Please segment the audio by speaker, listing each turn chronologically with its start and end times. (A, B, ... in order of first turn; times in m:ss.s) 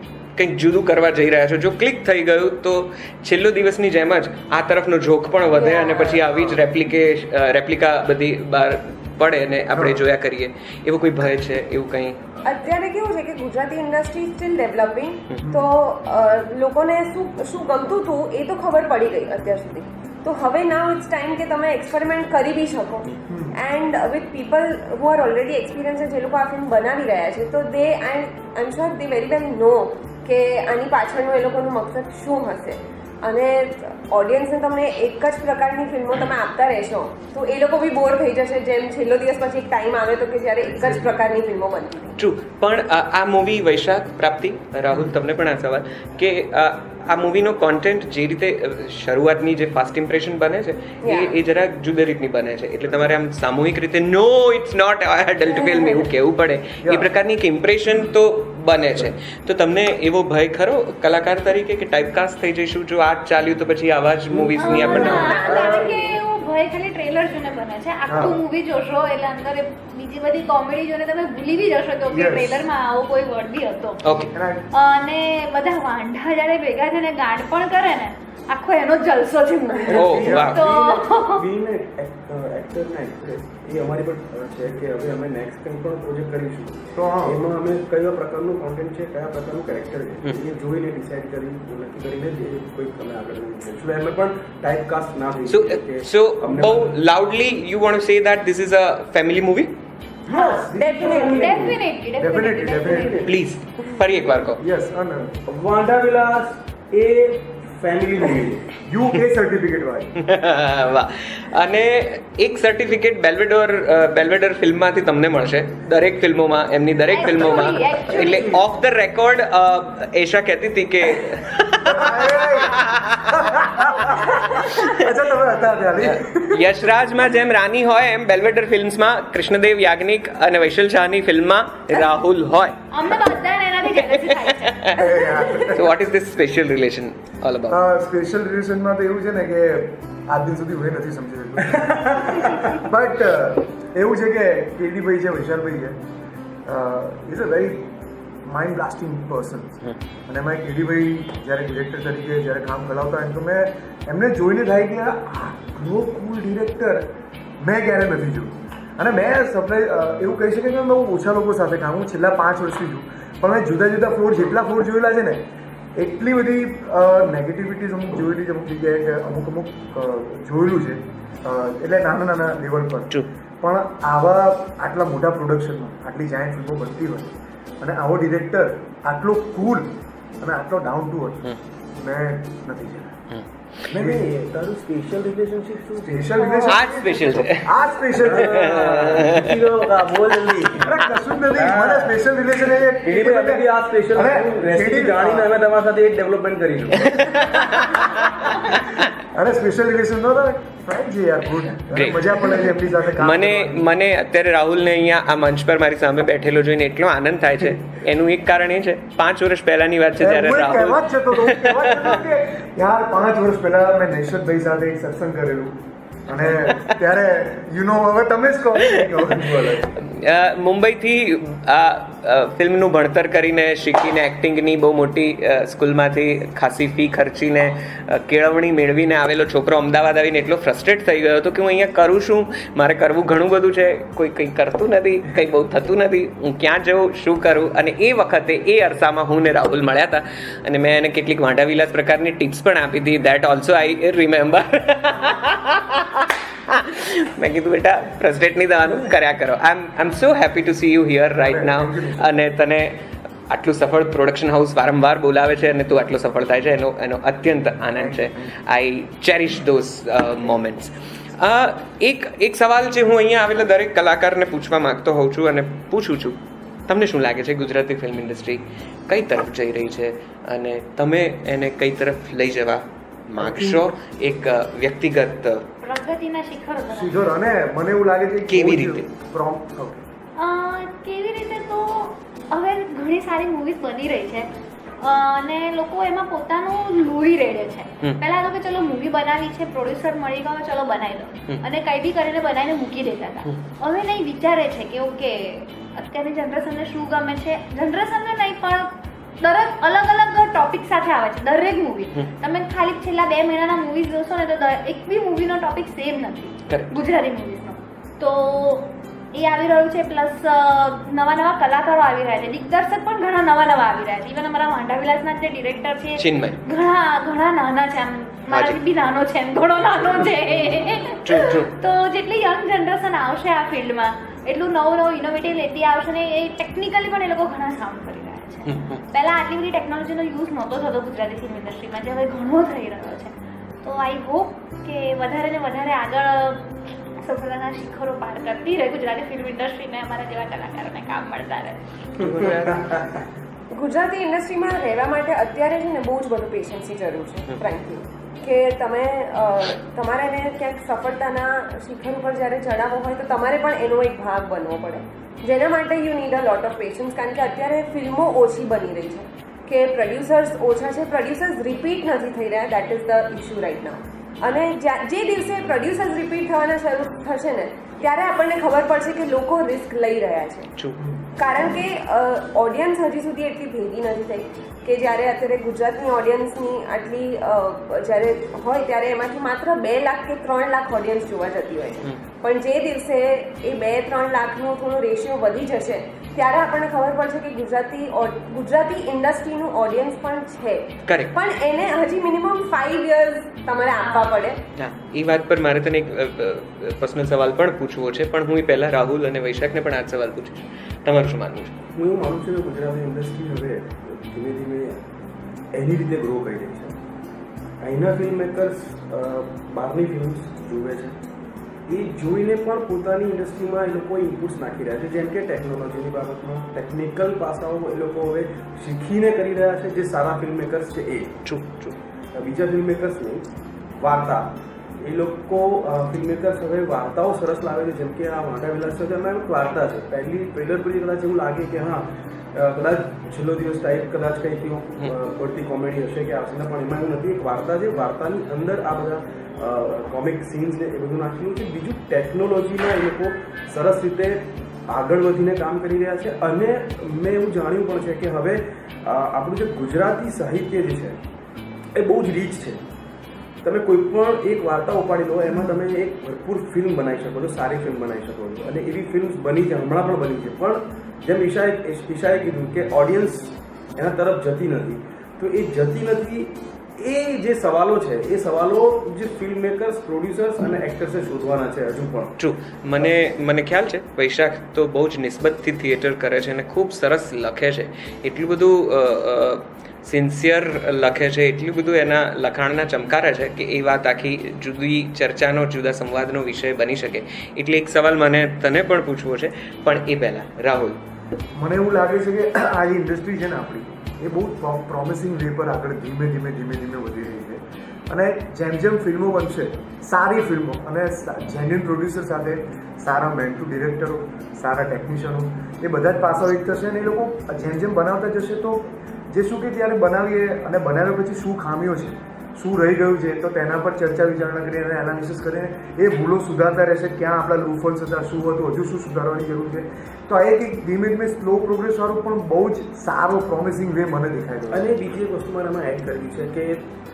0:00.4-0:12.2 A
0:05.5-0:06.3 B
0:09.7-0:10.0 C
0:12.4-0:42.2 B
0:15.4-0:15.7 C
0:23.3-0:23.6 C
0:40.7-0:41.1 C
0:42.2-1:05.4 A
0:51.0-0:51.4 B
0:55.6-0:56.0 B
0:56.8-0:57.1 C
1:04.3-1:05.1 D
1:04.6-1:14.0 E
1:04.8-1:06.2 B
1:04.9-1:05.9 C
1:08.1-1:08.4 C
1:12.1-1:12.6 C
1:14.0-1:14.3 A
1:14.3-1:14.7 C
1:14.7-1:21.4 E
1:19.9-1:36.9 D
1:19.9-1:20.7 A
1:20.1-1:20.6 C
1:27.0-1:27.4 C
1:35.5-1:39.8 A
1:40.3-1:41.8 D
1:40.4-1:41.4 C
1:40.4-1:41.5 B
1:40.8-1:43.2 E
1:42.2-1:43.3 C
1:42.8-1:43.3 D
1:43.3-1:44.6 A
1:44.6-1:45.4 C
1:45.5-1:48.7 D
1:48.9-1:50.2 C
1:50.2-2:05.0 A
1:57.1-1:58.6 E
2:01.8-2:06.9 C
2:06.0-2:12.8 A
2:12.9-2:15.0 E
2:14.3-2:15.0 A
2:15.0-2:15.9 C
2:15.0-2:15.7 B
2:15.7-2:17.8 A
2:17.7-2:26.0 C
2:21.8-2:22.8 D
2:26.7-2:27.9 C
2:28.4-2:45.4 C
2:46.0-3:03.2 C
3:03.9-3:06.4 D
3:03.9-3:04.3 C
3:06.0-3:09.2 C
3:06.4-3:07.2 B
3:06.7-3:07.7 A
3:08.2-3:10.9 D
3:08.4-3:09.5 A
3:10.8-3:15.5 C
3:11.5-3:12.2 D
3:13.0-3:17.4 D
3:17.1-3:18.1 A
3:19.3-3:23.9 C
3:21.9-3:32.2 A
3:30.2-3:35.8 C
3:36.3-3:40.0 C
3:36.5-3:36.8 A
3:38.9-4:35.7 A
4:11.4-4:12.5 C
4:17.9-4:18.5 C
4:33.4-4:33.9 C
4:35.8-4:37.3 E
4:36.9-4:40.0 C
4:38.5-4:39.0 A
4:40.4-4:44.5 E
4:45.0-5:33.3 E
5:06.7-5:06.9 A
5:16.2-5:16.6 A
5:18.5-5:18.8 A
5:21.2-5:21.7 A
5:28.7-5:29.0 A
5:33.8-5:41.8 E
5:42.2-5:42.9 A
5:42.2-5:43.2 D
5:43.7-6:10.7 B
6:11.4-6:34.6 B
6:31.1-6:31.4 A
6:34.0-6:34.4 E
6:34.8-6:41.9 A
6:42.0-6:45.0 D
6:45.7-6:47.0 D
6:47.8-6:51.2 D
6:51.9-7:01.3 D
7:01.4-7:02.0 A
7:02.3-7:03.4 D
7:04.0-7:31.2 D
7:31.9-7:32.8 D
7:33.6-7:52.3 D
7:52.4-8:11.0 A
8:11.6-8:44.9 C
8:44.7-8:46.8 D